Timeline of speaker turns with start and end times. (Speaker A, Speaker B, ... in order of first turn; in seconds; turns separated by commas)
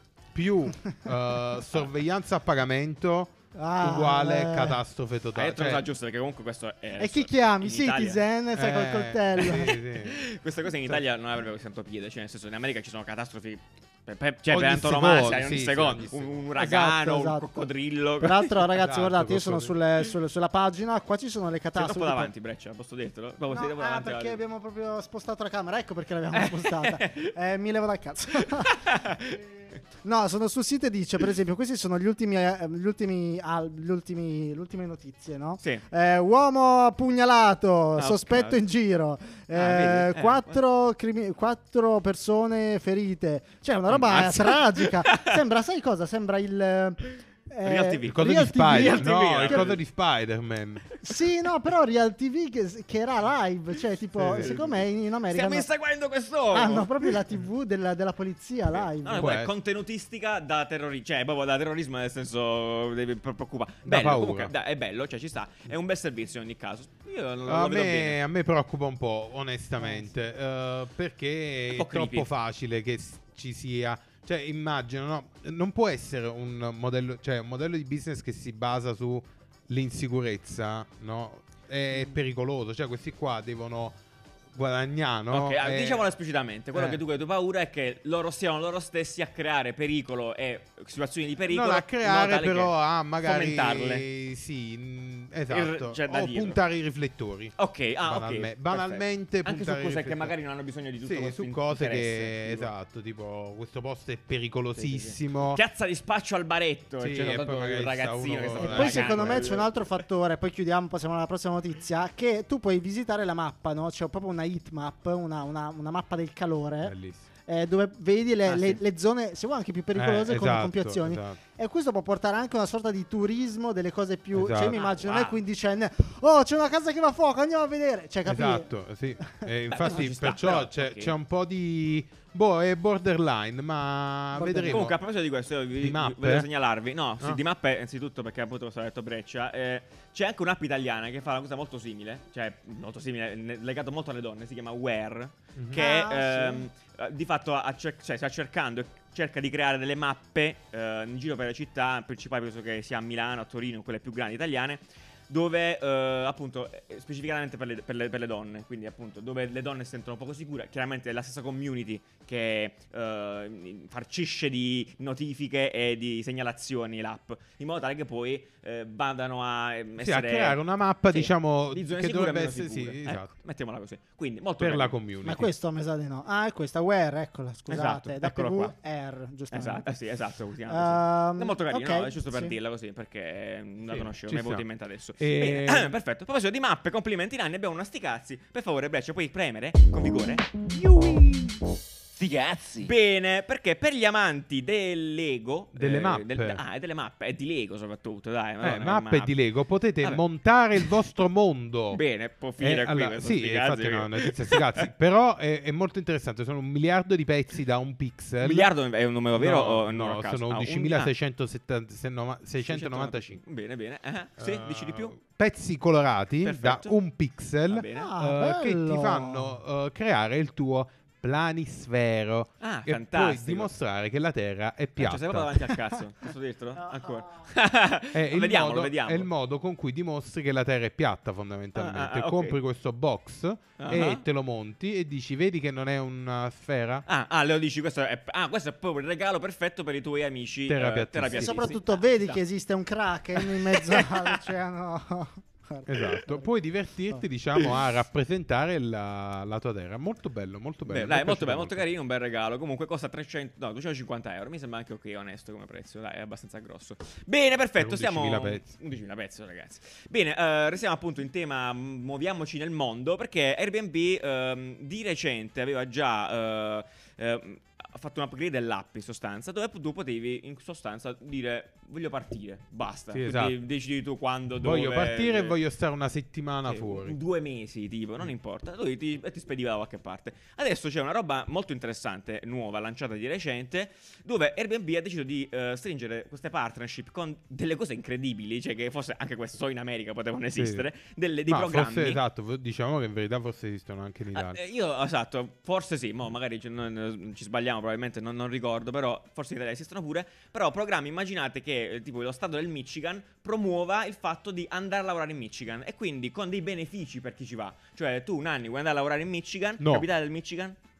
Speaker A: 0.3-5.8, Speaker B: 3.5-4.8, Speaker C: 5.3-8.2, Speaker B: 7.0-9.8, Speaker A: 8.6-10.3, Speaker C: 9.6-18.7, Speaker A: 14.5-16.4, Speaker B: 16.6-17.4, Speaker B: 18.2-22.3, Speaker A: 18.8-19.7, Speaker C: 21.8-24.4, Speaker B: 23.5-28.9, Speaker C: 26.4-27.3, Speaker C: 28.4-29.4, Speaker B: 30.0-49.8, Speaker C: 38.0-38.6, Speaker C: 39.5-40.6, Speaker C: 43.9-45.4, Speaker C: 47.6-49.8, Speaker A: 48.1-50.9, Speaker B: 51.0-55.7, Speaker A: 54.1-54.6, Speaker C: 54.3-57.2, Speaker B: 56.5-59.4, Speaker C: 58.8-68.2, Speaker A: 59.2-59.5, Speaker A: 63.8-64.5, Speaker A: 67.5-84.0, Speaker C: 71.7-72.3, Speaker A: 84.5-86.1, Speaker C: 85.3-94.0, Speaker A: 86.7-87.0, Speaker A: 91.5-97.5, Speaker C: 95.5-96.6, Speaker C: 97.6-102.7, Speaker A: 98.1-100.3, Speaker A: 101.0-105.6, Speaker C: 104.8-110.0, Speaker A: 107.0-109.6, Speaker B: 108.6-117.0, Speaker A: 116.8-117.3, Speaker B: 117.5-128.7, Speaker C: 118.5-118.8, Speaker A: 120.0-121.4, Speaker A: 124.3-124.8, Speaker C: 124.7-125.4, Speaker A: 128.3-135.0, Speaker B: 129.2-129.5, Speaker C: 129.7-131.1, Speaker B: 134.3-134.9, Speaker C: 134.7-174.9, Speaker A: 135.8-136.5, Speaker B: 145.7-146.7, Speaker A: 170.0-173.3, Speaker A: 174.6-175.5, Speaker B: 175.2-179.9, Speaker C: 177.7-178.7, Speaker C: 179.5-199.3, Speaker B: 180.7-182.5, Speaker A: 183.9-184.6, Speaker A: 185.2-185.9, Speaker A: 195.8-196.6, Speaker A: 198.6-202.0, Speaker C: 201.9-204.9, Speaker A: 202.6-208.7, Speaker C: 208.4-211.1, Speaker A: 209.4-213.4, Speaker C: 212.7-215.2, Speaker A: 214.4-225.7, Speaker C: 216.4-216.9, Speaker C: 217.7-218.1, Speaker B: 217.9-219.6, Speaker C: 222.6-223.7, Speaker C: 225.0-229.3, Speaker B: 226.8-227.3, Speaker A: 228.1-237.0, Speaker C: 231.8-232.6, Speaker C: 233.8-234.2, Speaker C: 237.1-242.4, Speaker A: 240.7-241.7, Speaker B: 241.3-246.5, Speaker C: 243.3-244.4, Speaker A: 245.9-251.8, Speaker C: 250.9-275.6, Speaker A: 257.8-258.6, Speaker A: 273.1-273.6, Speaker A: 274.6-277.2, Speaker C: 276.7-292.2, Speaker A: 290.6-290.9, Speaker A: 291.5-294.6, Speaker C: 294.4-310.8, Speaker A: 309.8-310.1